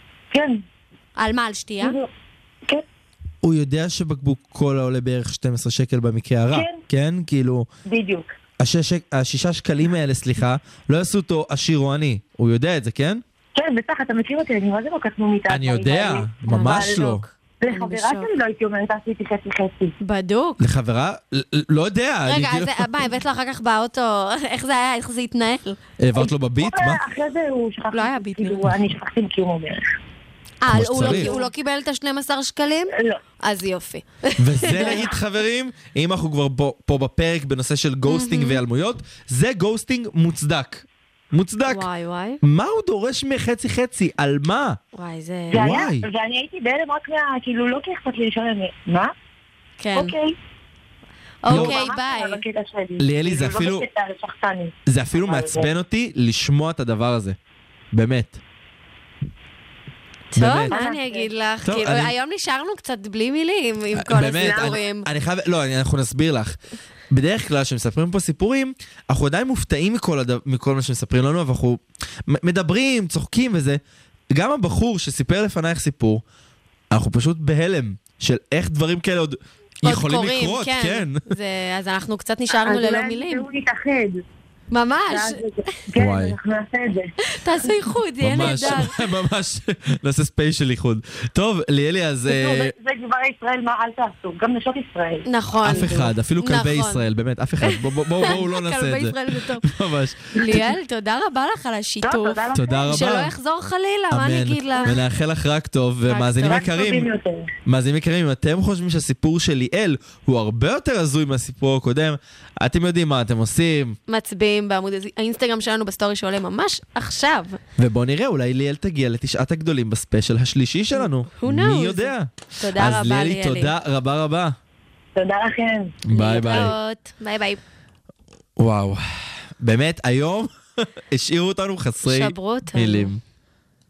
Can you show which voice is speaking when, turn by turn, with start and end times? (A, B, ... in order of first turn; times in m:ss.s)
0:00.3-0:00.6 A
0:01.2-0:02.0 B
0:01.8-0:02.1 A
0:03.4-0:07.7 C
0:06.5-0:06.8 A
0:07.8-0:08.3 A
0:08.6-0:13.2 C
0:13.5-0:19.9 A
0:15.5-0:17.2 C
0:16.4-0:18.3 B
0:20.0-0:20.6 B
0:20.6-0:22.9 C
0:22.3-0:25.8 B
0:26.0-0:27.0 C
0:26.2-0:29.8 A
0:27.9-0:28.7 B
0:30.6-0:35.1 B
0:30.7-0:31.3 C
0:30.9-0:31.5 A
0:34.4-0:41.9 C
0:38.1-0:38.6 B
0:41.7-0:42.4 B
0:42.4-0:44.8 C
0:44.9-0:45.8 B
0:45.5-0:49.1 A
0:45.5-0:46.0 C
0:49.8-0:50.2 B
0:49.9-0:50.3 A
0:51.4-0:52.4 B
0:51.4-0:51.8 C
0:51.4-0:55.7 A
0:53.0-0:53.8 C
0:54.8-0:57.4 C
0:57.9-0:58.4 C
1:00.3-1:05.1 B
1:00.3-1:00.8 C
1:00.7-1:01.3 A
1:01.6-1:02.1 C
1:03.9-1:06.6 C
1:04.2-1:04.8 A
1:07.1-1:16.2 C
1:16.9-1:21.3 C
1:19.8-1:23.5 B
1:22.5-1:24.2 A
1:24.7-1:25.4 B
1:25.1-1:27.1 A
1:26.0-1:26.3 C
1:27.2-1:29.0 B
1:28.2-1:32.7 C
1:28.4-1:28.7 A
1:32.2-1:36.1 A
1:35.2-1:37.0 B
1:35.6-1:40.7 C
1:37.6-1:39.7 B
1:40.3-1:45.0 B
1:42.0-1:42.9 A
1:42.5-1:43.3 C
1:44.1-1:47.1 C
1:46.1-1:46.6 B
1:46.5-1:47.5 A
1:47.6-1:54.0 C
1:54.1-1:57.6 B
1:57.8-2:04.6 C
2:01.0-2:03.7 B
2:05.2-2:06.0 A
2:06.0-2:06.7 C
2:06.1-2:07.6 B
2:08.6-2:09.0 C
2:09.6-2:13.2 C
2:12.0-2:13.1 B